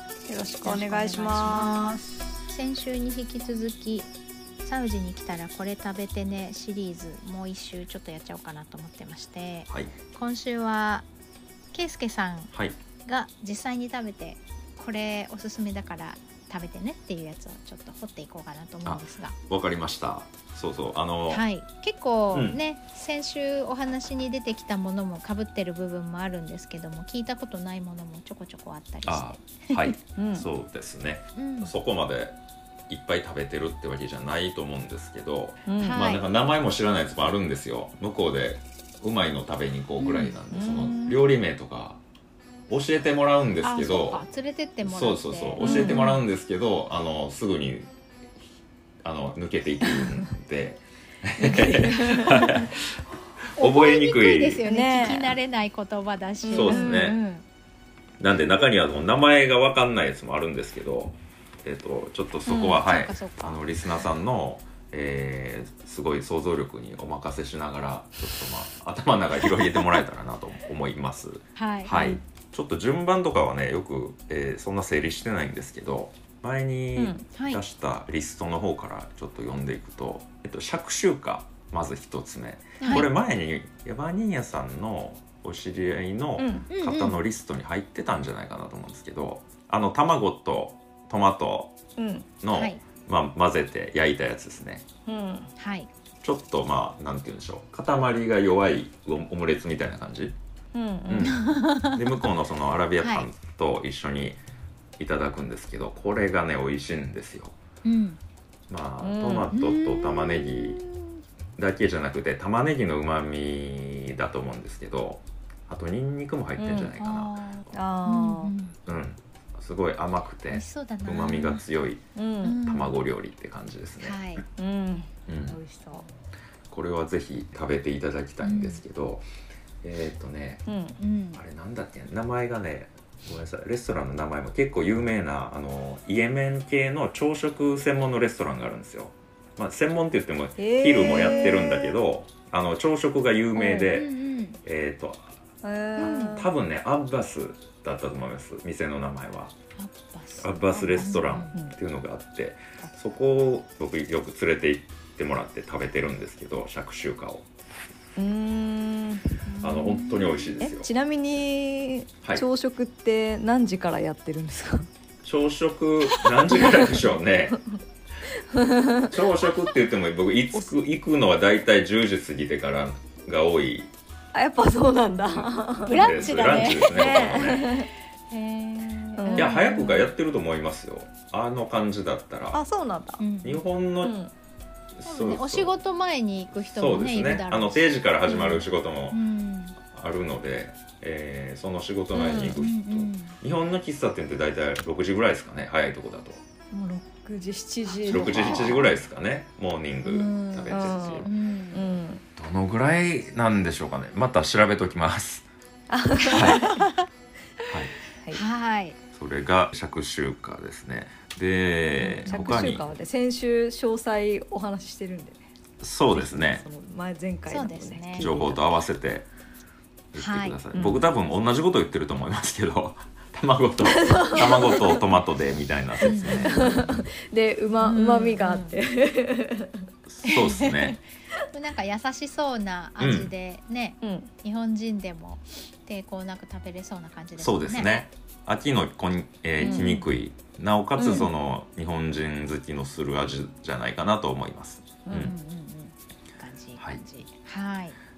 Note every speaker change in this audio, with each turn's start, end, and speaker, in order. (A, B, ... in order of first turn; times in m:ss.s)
0:00.3-0:02.3 A
0:00.6-0:04.1 B
0:04.6-0:11.1 B
0:09.7-0:10.0 C
0:11.7-0:12.5 B
0:13.0-0:19.4 B
0:18.8-0:21.4 C
0:21.3-0:30.0 B
0:22.3-0:22.6 C
0:29.1-0:32.4 C
0:30.2-0:30.5 A
0:31.4-0:31.7 B
0:32.9-0:42.0 C
0:35.7-0:36.0 A
0:35.8-0:36.2 B
0:40.0-0:41.3 A
0:42.7-0:44.2 C
0:43.6-0:46.2 B
0:44.8-0:47.9 C
0:45.6-0:46.2 A
0:49.0-0:52.9 C
0:49.9-0:50.2 A
0:51.4-0:52.7 A
0:53.6-0:54.6 C
0:53.6-0:57.4 B
0:54.6-0:55.4 A
0:56.4-0:57.1 A
0:56.5-0:57.2 C
0:58.2-1:31.8 C
1:02.5-1:02.8 A
1:02.7-1:03.6 B
1:11.6-1:12.2 B
1:17.0-1:17.2 A
1:17.3-1:17.6 B
1:22.8-1:23.1 A
1:22.8-1:23.1 B
1:26.4-1:26.7 A
1:26.7-1:27.1 B
1:32.0-1:32.3 A
1:32.4-1:34.9 C
1:32.5-1:32.8 B
1:35.1-1:35.5 A
1:35.6-1:35.9 B
1:36.2-1:40.4 C
1:40.7-1:41.4 A
1:41.1-1:44.4 C
1:41.2-1:42.0 B
1:43.0-1:43.3 B
1:45.0-1:47.6 C
1:47.8-1:48.2 B
1:48.7-1:50.8 C
1:49.0-1:49.8 A
1:49.5-1:50.6 B
1:51.6-1:57.3 C
1:56.6-1:57.0 A
1:57.0-1:58.8 B
1:57.7-1:58.5 A
1:58.9-2:02.0 C
2:00.5-2:01.6 B
2:02.2-2:02.6 A
2:02.4-2:03.0 B
2:02.6-2:04.2 C
2:04.0-2:04.4 B
2:04.6-2:06.1 A
2:05.3-2:05.6 C
2:06.7-2:09.2 C
2:08.4-2:08.8 B
2:09.8-2:10.6 C
2:10.7-2:11.0 A
2:11.0-2:11.4 B
2:11.4-2:24.1 C
2:20.6-2:22.0 A
2:23.6-2:24.6 B
2:24.6-2:25.3 C
2:25.6-2:26.5 A
2:26.0-2:26.5 B
2:26.0-2:29.5 C
2:29.8-2:31.5 B
2:30.4-2:37.5 C
2:38.2-2:44.9 A
2:39.6-2:40.9 C
2:45.2-2:47.6 C
2:46.1-2:47.8 A
2:48.5-2:49.1 A
2:49.1-2:53.9 C
2:54.3-2:57.9 A
2:55.9-2:57.6 B
2:55.9-2:57.9 C
2:58.3-3:00.0 B
2:59.2-3:00.0 A
2:59.4-3:02.6 C
3:02.5-3:03.2 A
3:03.2-3:03.6 B
3:03.4-3:04.2 C
3:04.0-3:04.3 A
3:05.0-3:05.8 C
3:05.1-3:09.8 B
3:06.7-3:09.2 C
3:09.8-3:16.4 C
3:12.1-3:12.6 A
3:12.5-3:13.4 B
3:16.7-3:18.9 A
3:18.0-3:21.3 C
3:18.2-3:18.8 B
3:20.1-3:22.0 B
3:20.7-3:22.2 A
3:22.4-3:25.5 C
3:25.9-3:26.8 A
3:26.2-3:27.1 B
3:26.3-3:26.7 C
3:27.7-3:28.0 C
3:28.3-3:29.0 B
3:29.1-3:32.9 C
3:32.0-3:32.6 B
3:32.3-3:35.4 A
3:35.8-3:36.6 C
3:36.1-3:38.7 A
3:37.5-3:38.3 B
3:38.2-3:39.3 C
3:40.1-3:46.7 C
3:40.2-3:40.6 B
3:40.7-3:41.0 A
3:43.8-3:45.1 A
3:46.0-3:46.7 B
3:46.1-3:49.9 A
3:47.8-3:48.8 B
3:50.1-3:51.0 C
3:50.2-3:51.0 B
3:51.5-3:58.1 B
3:53.0-3:53.3 C
3:54.0-3:54.3 A
3:57.4-4:05.3 C
3:59.6-4:00.0 A
3:59.6-4:00.0 B
4:01.0-4:01.3 A
4:05.1-4:05.3 A
4:05.1-4:08.0 B
4:06.8-4:07.0 C